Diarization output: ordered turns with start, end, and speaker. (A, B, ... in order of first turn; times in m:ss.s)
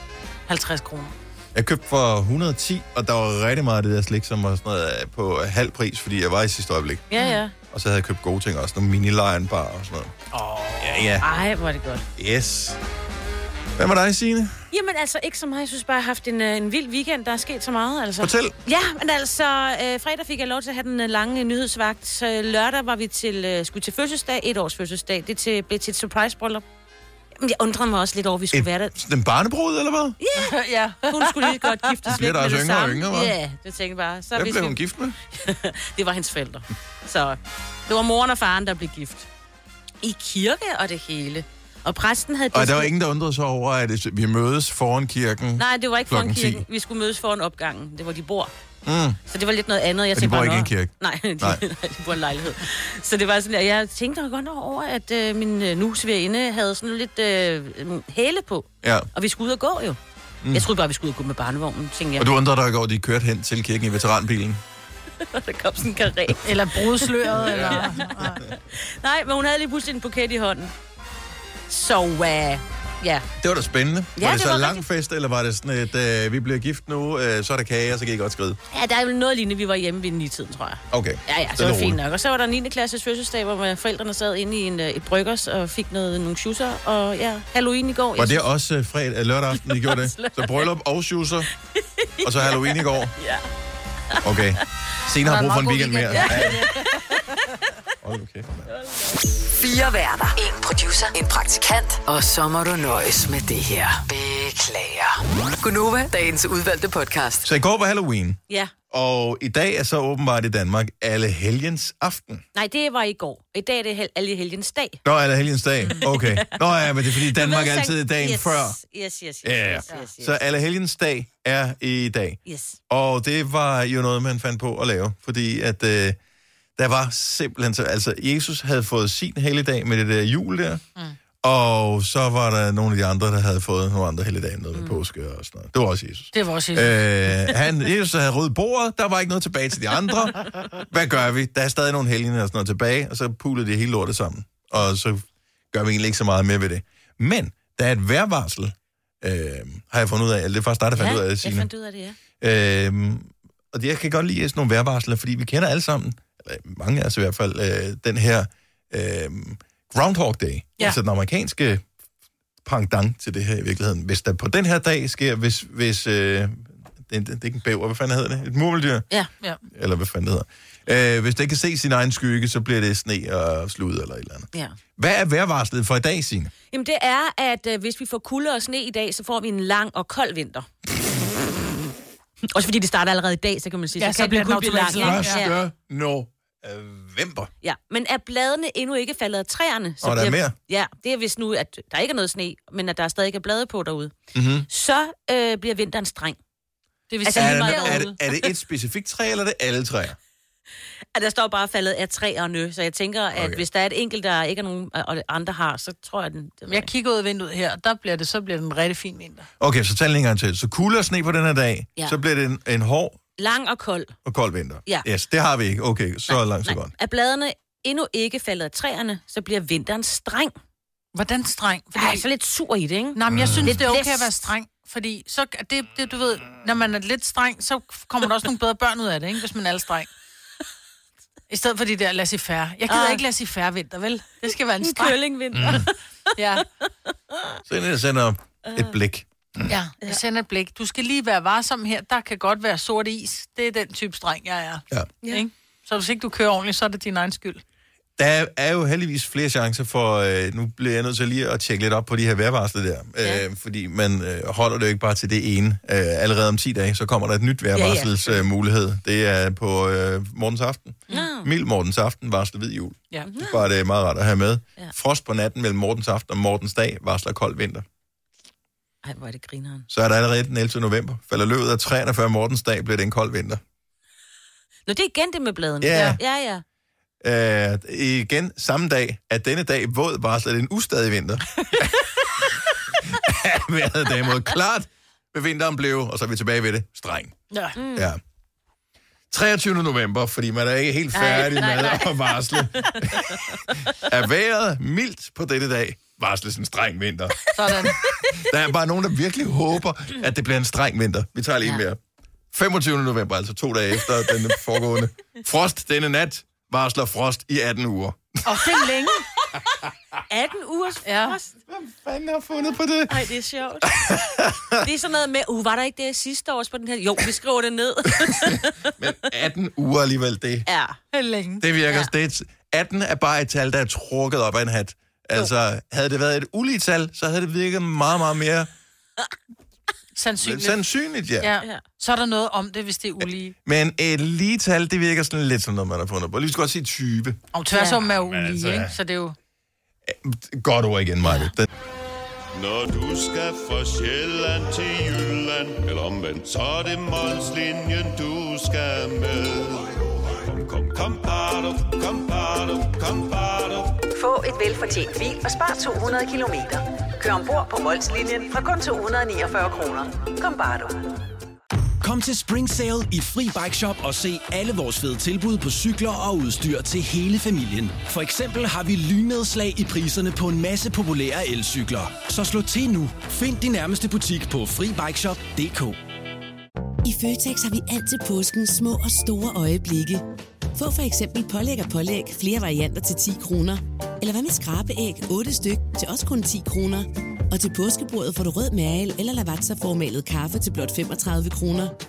0:00.5-0:01.1 A
0:01.5-0:07.0 B
0:07.1-0:07.5 C
0:07.1-0:07.4 A
0:07.7-0:10.1 B
0:10.3-0:11.1 A
0:10.8-0:11.3 B
0:11.2-0:12.0 C
0:12.2-0:12.8 B
0:13.8-0:14.6 B
0:14.7-0:26.6 C
0:18.2-0:18.6 B
0:27.4-0:28.9 C
0:28.5-0:30.2 B
0:30.2-0:34.8 C
0:30.3-0:31.9 A
0:32.0-0:33.4 B
0:34.3-0:35.2 B
0:35.3-0:39.3 C
0:40.0-0:42.9 C
0:42.5-0:46.6 B
0:45.6-0:48.5 C
0:48.8-0:49.2 B
0:49.3-1:00.0 C
0:50.1-0:51.6 B
0:58.8-0:59.1 B
1:00.4-1:00.7 B
1:00.5-1:02.3 C
1:02.2-1:04.6 B
1:05.2-1:10.7 C
1:06.4-1:08.4 A
1:07.3-1:07.9 B
1:11.7-1:13.2 C
1:13.4-1:18.6 B
1:14.2-1:14.8 C
1:18.7-1:28.4 C
1:20.9-1:22.0 B
1:28.2-1:31.5 B
1:29.5-1:30.7 C
1:31.7-1:33.5 C
1:32.2-1:33.1 B
1:34.1-1:34.6 C
1:34.2-1:36.7 B
1:35.2-1:36.8 A
1:36.1-1:37.0 C
1:38.0-1:38.7 B
1:38.7-1:39.2 C
1:39.6-1:47.5 D
1:47.4-1:48.4 B
1:48.9-1:52.4 B
1:52.5-1:55.0 C
1:55.0-1:58.8 B
1:56.0-2:00.4 C
1:59.4-2:06.2 B
2:02.4-2:02.8 C
2:06.8-2:10.8 B
2:11.4-2:31.7 B
2:16.3-2:17.0 A
2:31.0-2:32.2 C
2:32.4-2:41.8 B
2:42.6-2:49.0 B
2:49.7-2:56.5 B
2:56.7-3:00.7 C
3:02.5-3:05.6 C
3:04.0-3:05.5 A
3:04.9-3:07.5 B
3:07.6-3:14.1 C
3:10.0-3:10.6 B
3:14.3-3:14.7 B
3:14.7-3:16.4 C
3:17.1-3:18.2 A
3:17.2-3:18.5 C
3:17.3-3:20.2 B
3:21.1-3:26.9 C
3:23.3-3:23.6 B
3:26.7-3:29.5 A
3:29.6-3:33.2 B
3:33.4-3:34.1 C
3:34.2-3:36.9 B
3:36.3-3:40.5 C
3:41.1-3:42.2 A
3:41.9-3:44.3 C
3:43.1-3:50.1 A
3:43.3-3:43.8 B
3:51.5-3:55.8 A
3:52.9-3:53.2 C
3:54.8-3:55.9 C
3:55.5-3:55.9 B
3:56.4-3:56.6 A
3:57.7-3:59.7 B
3:59.7-4:07.6 A
4:08.2-4:27.8 B
4:17.8-4:18.4 C
4:21.1-4:21.5 C
4:23.2-4:23.6 C
4:29.0-4:29.9 C
4:29.9-4:33.6 B
4:34.8-4:36.6 C
4:35.8-4:36.2 B
4:35.9-4:36.2 A
4:37.2-4:41.9 B
4:43.0-4:47.3 B
4:47.5-4:47.8 A
4:47.8-4:48.1 C
4:47.9-4:48.2 B
4:49.3-5:02.0 B
4:51.1-4:53.6 C
4:57.5-4:58.0 A
5:02.5-5:08.6 B
5:08.4-5:09.2 A
5:10.3-5:11.5 C
5:11.0-5:11.4 A
5:11.7-5:13.3 B
5:13.1-5:14.0 C
5:13.8-5:14.8 B
5:14.8-5:18.9 C
5:18.2-5:20.7 B
5:20.7-5:21.0 C
5:21.1-5:21.6 A
5:21.6-5:28.7 B
5:30.2-5:30.8 A
5:30.4-5:31.5 B
5:31.4-5:33.5 A
5:33.6-5:37.4 B
5:37.5-5:39.4 A
5:37.7-5:38.1 C
5:38.3-5:38.9 B
5:40.0-5:41.7 B
5:41.2-5:41.5 C
5:42.5-5:54.0 E
5:54.2-6:01.1 F
6:02.0-6:16.0 G
6:17.0-6:20.2 H
6:20.7-6:31.9 H